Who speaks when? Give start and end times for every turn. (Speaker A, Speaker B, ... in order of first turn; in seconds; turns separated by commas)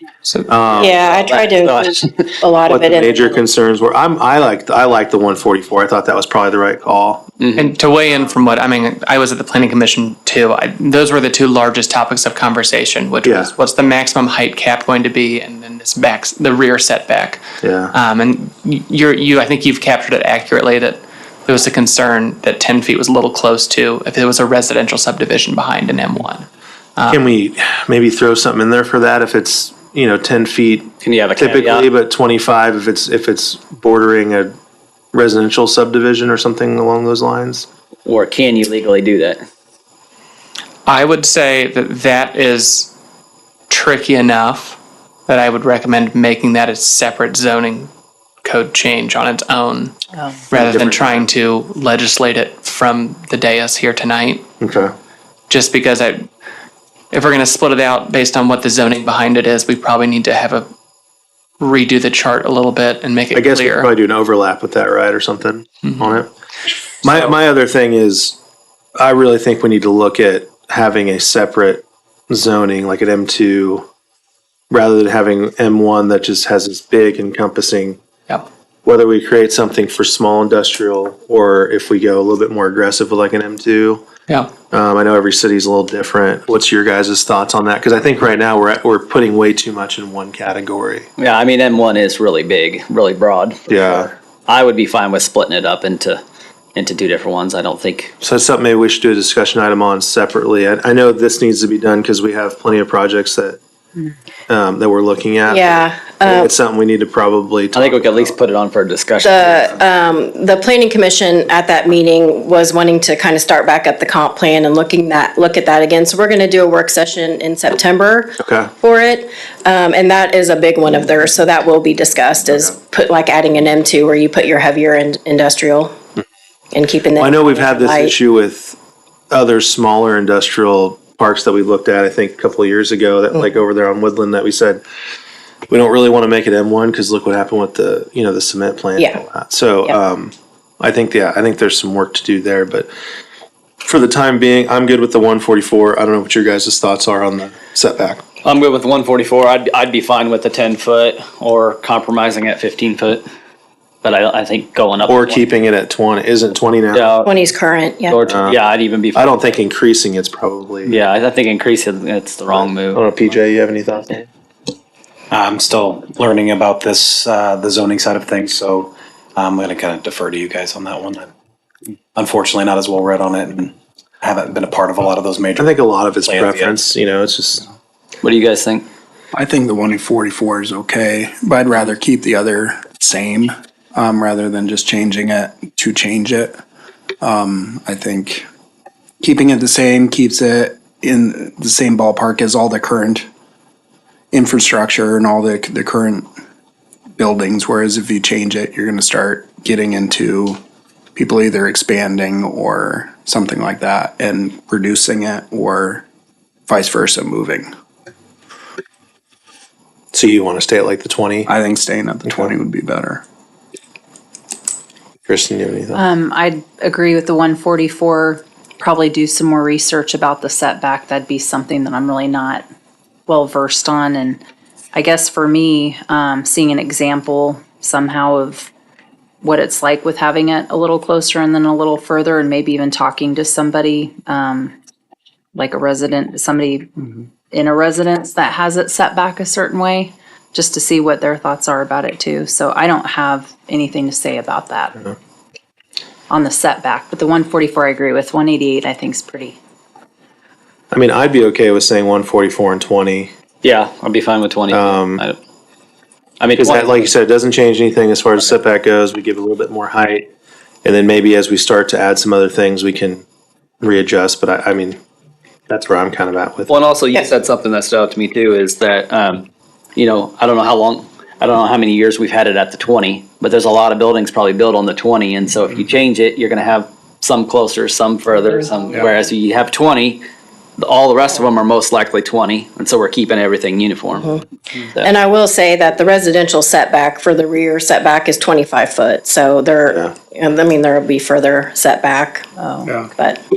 Speaker A: 0.2-0.5, Speaker B: 0.5-1.0, Speaker C: 0.8-3.4, Speaker D: 1.0-2.2, Speaker B: 2.7-7.2, Speaker D: 7.4-7.7, Speaker A: 7.5-27.2, Speaker B: 8.1-8.4, Speaker B: 13.2-13.5, Speaker B: 17.6-17.9, Speaker B: 27.1-34.5, Speaker D: 31.0-31.9, Speaker B: 35.1-37.6, Speaker D: 38.0-39.4, Speaker A: 40.9-42.9, Speaker A: 43.7-47.9, Speaker A: 48.4-50.0, Speaker E: 50.1-50.4, Speaker A: 50.5-54.4, Speaker B: 50.5-51.3, Speaker B: 54.6-54.9, Speaker A: 55.5-56.3, Speaker A: 57.1-60.7, Speaker A: 61.6-63.9, Speaker B: 63.3-66.3, Speaker A: 65.8-66.1, Speaker B: 67.0-68.4, Speaker B: 69.0-73.9, Speaker B: 74.7-78.0, Speaker B: 78.8-84.0, Speaker B: 84.7-91.1, Speaker D: 91.2-96.2, Speaker B: 93.7-94.1, Speaker D: 96.7-98.1, Speaker B: 98.2-103.6, Speaker B: 104.5-108.4, Speaker C: 105.5-106.5, Speaker D: 107.7-109.7, Speaker C: 109.2-125.9, Speaker B: 118.4-118.7, Speaker C: 126.7-128.1, Speaker B: 127.2-128.8, Speaker B: 129.3-134.8, Speaker B: 135.7-142.9, Speaker B: 143.8-148.2, Speaker D: 148.4-153.2, Speaker D: 154.0-155.5, Speaker B: 155.1-157.1, Speaker D: 156.9-157.3, Speaker C: 157.2-158.2, Speaker D: 158.1-159.4, Speaker B: 158.3-158.6, Speaker B: 159.1-161.0, Speaker D: 160.8-163.1, Speaker B: 162.5-164.3, Speaker F: 165.3-171.3, Speaker F: 172.2-176.7, Speaker B: 175.6-177.7, Speaker D: 178.2-178.8, Speaker G: 179.3-186.6, Speaker G: 187.2-188.4, Speaker G: 189.2-193.2, Speaker G: 194.3-196.3, Speaker G: 197.2-200.6, Speaker G: 201.1-206.0, Speaker G: 206.7-207.7, Speaker B: 210.1-211.5, Speaker G: 211.4-213.2, Speaker B: 212.2-212.5, Speaker B: 215.2-216.0, Speaker E: 215.9-222.6, Speaker E: 223.3-224.4, Speaker E: 224.9-228.7, Speaker E: 229.4-234.7, Speaker E: 235.5-245.1, Speaker E: 246.3-249.6, Speaker B: 250.9-253.3, Speaker D: 253.6-255.4, Speaker B: 254.7-255.2, Speaker D: 256.4-257.1, Speaker B: 256.6-260.3, Speaker B: 260.8-263.2, Speaker B: 263.8-265.0, Speaker B: 265.7-266.7, Speaker D: 266.7-280.2, Speaker D: 280.8-284.3, Speaker C: 285.0-292.5, Speaker E: 292.6-292.9, Speaker C: 293.1-293.4